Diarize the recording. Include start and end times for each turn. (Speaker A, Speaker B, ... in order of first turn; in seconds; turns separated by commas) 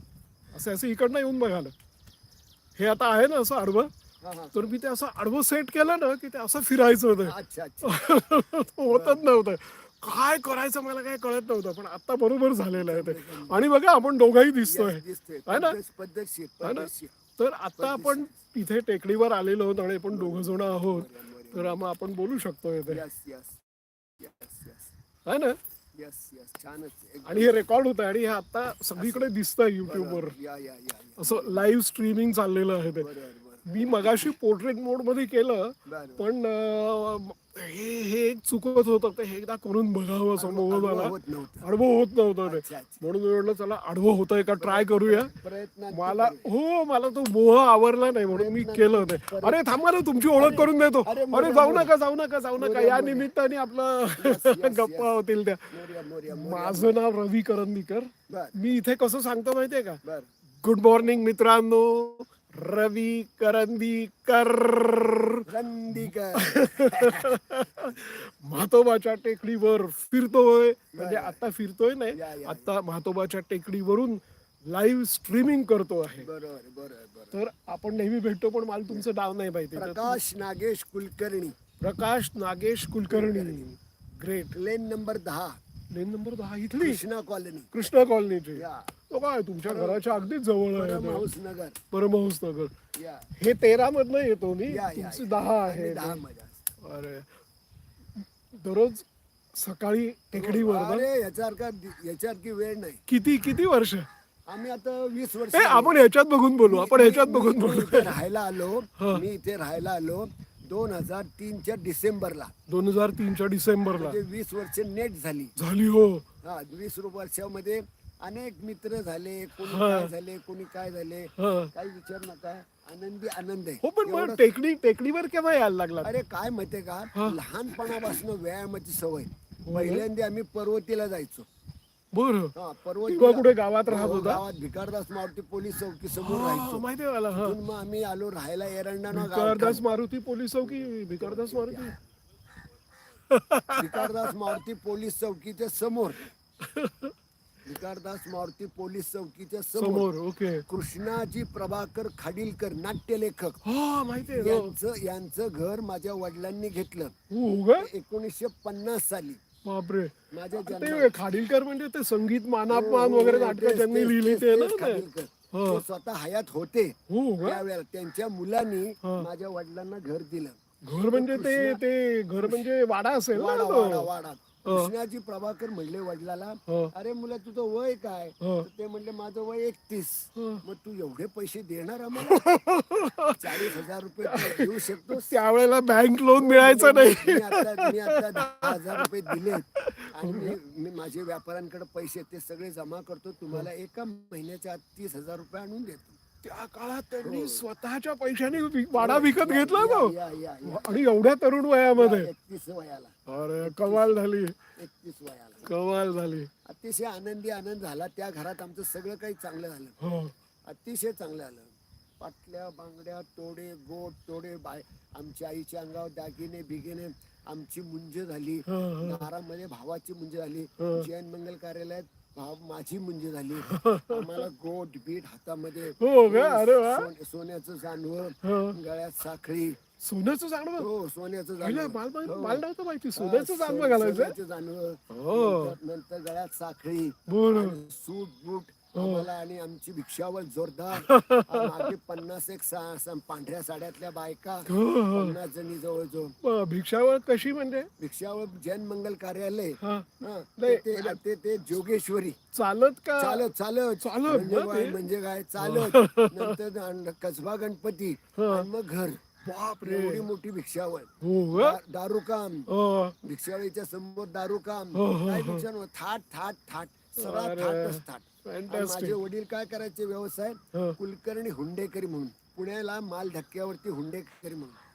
Speaker A: 0.5-1.7, Speaker A: 2.8-3.9, Speaker B: 4.2-4.6, Speaker A: 4.5-15.8, Speaker B: 7.2-8.1, Speaker B: 8.9-9.3, Speaker B: 12.8-13.6, Speaker B: 14.6-17.1, Speaker A: 16.6-23.0, Speaker B: 17.8-18.4, Speaker B: 20.1-21.8, Speaker B: 22.9-24.9, Speaker A: 25.3-25.6, Speaker B: 26.0-27.6, Speaker A: 27.3-30.4, Speaker B: 29.0-29.3, Speaker B: 29.9-31.7, Speaker A: 31.2-33.1, Speaker B: 32.9-34.3, Speaker A: 33.7-45.3, Speaker B: 35.9-36.3, Speaker B: 40.4-41.6, Speaker B: 42.5-43.0, Speaker B: 44.6-46.5, Speaker A: 45.9-55.7, Speaker B: 48.3-49.6, Speaker B: 50.4-51.9, Speaker B: 52.6-53.3, Speaker B: 54.2-55.1, Speaker B: 55.7-57.0, Speaker A: 56.3-60.0, Speaker B: 58.3-58.6, Speaker B: 60.0-60.3, Speaker A: 60.6-65.5, Speaker B: 65.5-67.4, Speaker A: 66.0-76.3, Speaker B: 70.9-71.4, Speaker B: 72.1-72.7, Speaker B: 76.1-77.4, Speaker A: 77.3-80.2, Speaker B: 79.8-81.6, Speaker A: 81.8-84.6, Speaker B: 83.1-83.7, Speaker B: 84.5-85.6, Speaker A: 85.9-87.0, Speaker B: 86.8-87.7, Speaker A: 87.7-91.2, Speaker B: 88.5-88.9, Speaker B: 89.7-90.0, Speaker B: 90.7-91.8, Speaker A: 91.9-92.7, Speaker B: 93.0-93.3, Speaker A: 93.4-96.2, Speaker B: 94.7-96.7, Speaker A: 96.8-97.3, Speaker A: 98.2-101.1, Speaker B: 100.3-103.0, Speaker A: 103.1-104.1, Speaker B: 104.5-106.0, Speaker A: 105.5-108.2, Speaker B: 106.6-112.5, Speaker A: 109.0-109.2, Speaker A: 112.7-114.2, Speaker B: 114.0-115.5, Speaker A: 115.6-116.3, Speaker B: 116.4-124.5, Speaker A: 119.6-120.1, Speaker A: 121.4-121.7, Speaker A: 123.8-126.1, Speaker B: 126.0-131.5, Speaker A: 129.7-130.1, Speaker A: 132.1-132.5, Speaker B: 132.5-139.8, Speaker A: 133.1-134.4, Speaker A: 136.2-137.6, Speaker A: 139.1-141.9, Speaker B: 140.6-142.0, Speaker A: 143.3-144.3, Speaker B: 143.8-146.2, Speaker A: 146.6-147.1, Speaker B: 147.7-150.1, Speaker A: 149.8-150.7, Speaker B: 150.7-153.6, Speaker A: 153.6-154.7, Speaker B: 154.3-157.1, Speaker A: 157.3-157.9, Speaker B: 157.8-159.4, Speaker A: 159.7-165.8, Speaker B: 160.3-161.2, Speaker B: 162.7-171.8, Speaker A: 167.1-167.6, Speaker A: 170.8-174.1, Speaker B: 172.4-172.7, Speaker B: 173.3-182.6, Speaker A: 174.6-174.9, Speaker A: 176.7-176.9, Speaker A: 178.4-178.7, Speaker A: 180.4-180.6, Speaker A: 182.2-190.6, Speaker B: 183.4-185.3, Speaker B: 186.4-196.2, Speaker A: 196.4-202.3, Speaker B: 197.2-197.7, Speaker B: 198.9-201.0, Speaker B: 201.9-204.2, Speaker A: 203.3-204.6, Speaker B: 204.8-205.7, Speaker A: 205.7-206.5, Speaker B: 206.7-210.0, Speaker A: 210.0-210.3, Speaker B: 210.7-229.8, Speaker A: 218.7-219.2, Speaker A: 220.8-221.1, Speaker A: 223.6-224.5, Speaker A: 226.0-227.1, Speaker A: 228.4-228.8, Speaker A: 230.0-230.9, Speaker B: 230.8-232.6, Speaker A: 231.6-234.3, Speaker B: 233.2-246.3, Speaker A: 235.1-235.8, Speaker A: 237.3-237.8, Speaker A: 238.9-239.3, Speaker A: 240.9-241.9, Speaker A: 244.7-245.4, Speaker A: 246.4-247.9, Speaker B: 248.0-252.4, Speaker A: 249.8-251.2, Speaker A: 252.5-253.5, Speaker B: 253.2-262.7, Speaker A: 254.0-255.0, Speaker A: 255.6-256.6, Speaker A: 258.4-258.7, Speaker A: 259.9-260.3, Speaker A: 261.2-261.8, Speaker A: 262.7-263.1, Speaker B: 263.2-274.8, Speaker A: 264.9-265.6, Speaker A: 267.2-269.2